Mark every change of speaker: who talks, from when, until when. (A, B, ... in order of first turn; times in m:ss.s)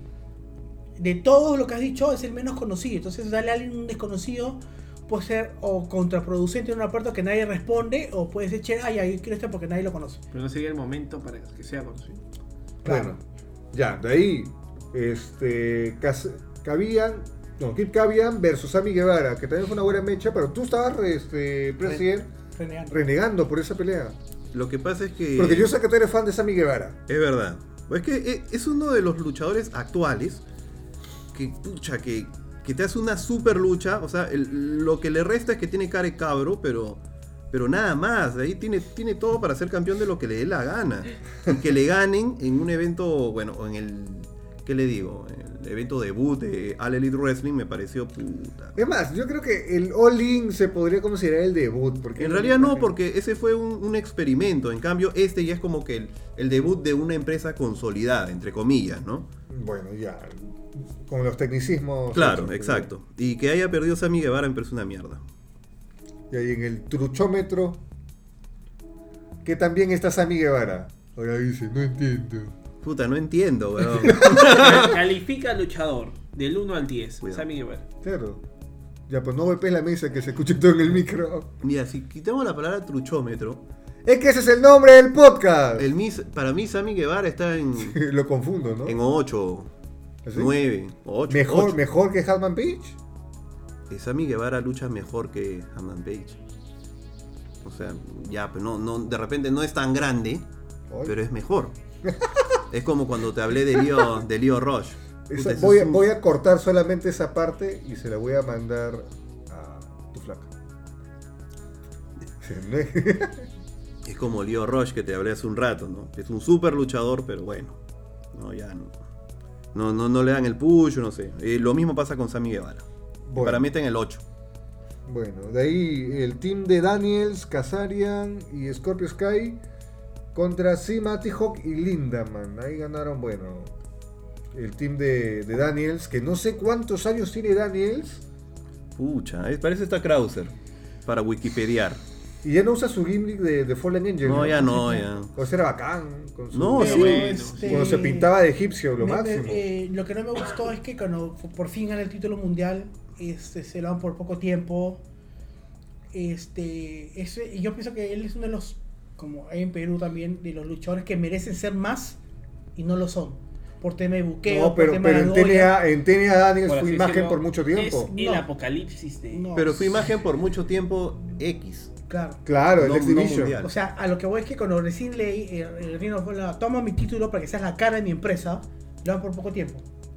0:01.0-0:10.2 A
0:10.3-0:12.2 B
0:12.8-0:13.2 A
0:12.8-0:13.2 C
0:13.7-0:22.3 C
0:21.8-0:23.0 A
0:22.9-0:24.2 C
0:24.5-0:25.7 D
0:25.4-0:27.0 C
0:27.1-0:30.4 D
0:31.3-0:48.7 D
0:48.8-0:52.9 C
0:52.2-0:59.3 D
0:59.5-1:02.9 C
1:02.1-1:05.2 D
1:06.3-1:07.8 C
1:09.4-1:12.5 C
1:12.8-1:15.0 D
1:13.8-1:14.9 C
1:14.3-1:17.8 B
1:18.0-1:18.4 C
1:19.1-1:21.5 C
1:21.6-1:23.6 D
1:24.0-1:25.9 C
1:25.8-1:28.0 D
1:27.8-1:29.0 C
1:28.8-1:29.7 D
1:30.2-1:30.5 C
1:30.3-1:31.8 D
1:31.3-1:33.0 C
1:33.9-1:36.4 D
1:37.6-1:40.4 D
1:40.9-1:41.2 C
1:41.0-1:41.7 D
1:42.0-1:42.6 C
1:42.7-1:46.0 D
1:43.8-1:44.2 C
1:45.3-1:50.5 C
1:52.4-1:53.5 C
1:54.0-1:57.8 D
1:58.3-1:58.9 D
1:59.7-2:02.8 D
2:03.3-2:03.7 C
2:03.4-2:04.2 D
2:05.0-2:09.6 C
2:10.3-2:13.7 C
2:14.5-2:18.2 C
2:19.0-2:20.5 D
2:21.0-2:22.0 D
2:22.4-2:29.6 C
2:24.2-2:25.3 D
2:26.5-2:27.3 D
2:26.8-2:28.0 B
2:26.8-2:28.3 A
2:29.0-2:35.0 A
2:36.1-2:42.2 A
2:42.8-2:45.8 A
2:44.4-2:48.1 C
2:46.6-2:49.5 B
2:48.1-2:48.5 A
2:49.3-2:50.0 A
2:49.5-2:51.9 D
2:52.1-2:52.4 A
2:52.4-2:53.6 C
2:52.8-2:53.7 D
2:53.6-2:59.8 A